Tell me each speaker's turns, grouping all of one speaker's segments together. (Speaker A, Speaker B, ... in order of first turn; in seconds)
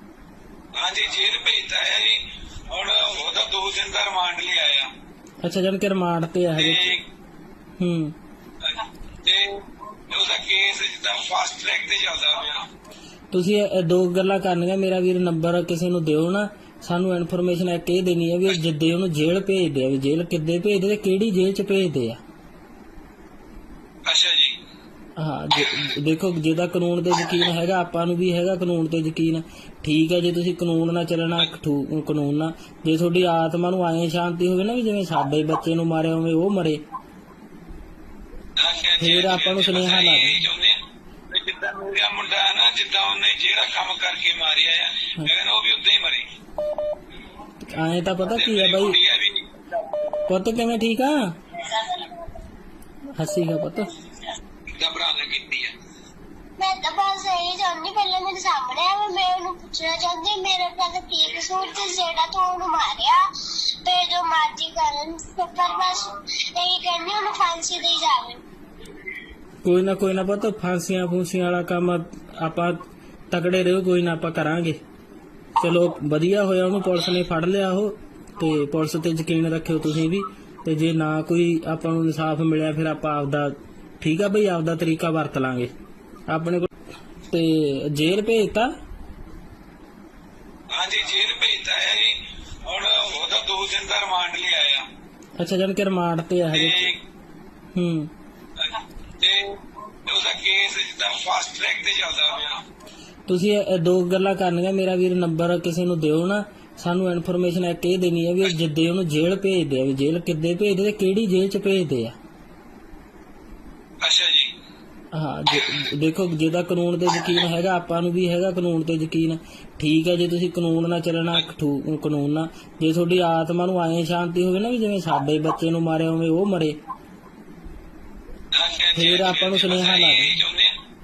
Speaker A: 0.7-4.9, 6.6-7.0, 8.6-12.7, 24.1-24.6, 38.6-40.8, 41.3-46.3, 48.2-49.6, 54.8-55.7, 90.7-94.9, 96.5-97.0, 98.6-102.6, 114.0-114.5, 128.5-130.7
Speaker B: 5.4-6.9, 7.8-8.2, 13.3-22.2, 25.2-36.8, 39.0-40.4, 47.7-49.0, 50.3-51.4, 53.2-54.0, 69.6-74.8, 75.6-85.7, 86.3-86.7, 87.3-88.7, 95.4-96.9, 97.8-98.1, 103.3-112.2, 115.1-126.8, 129.0-130.3
Speaker C: 51.8-52.1, 56.6-63.3, 63.8-68.4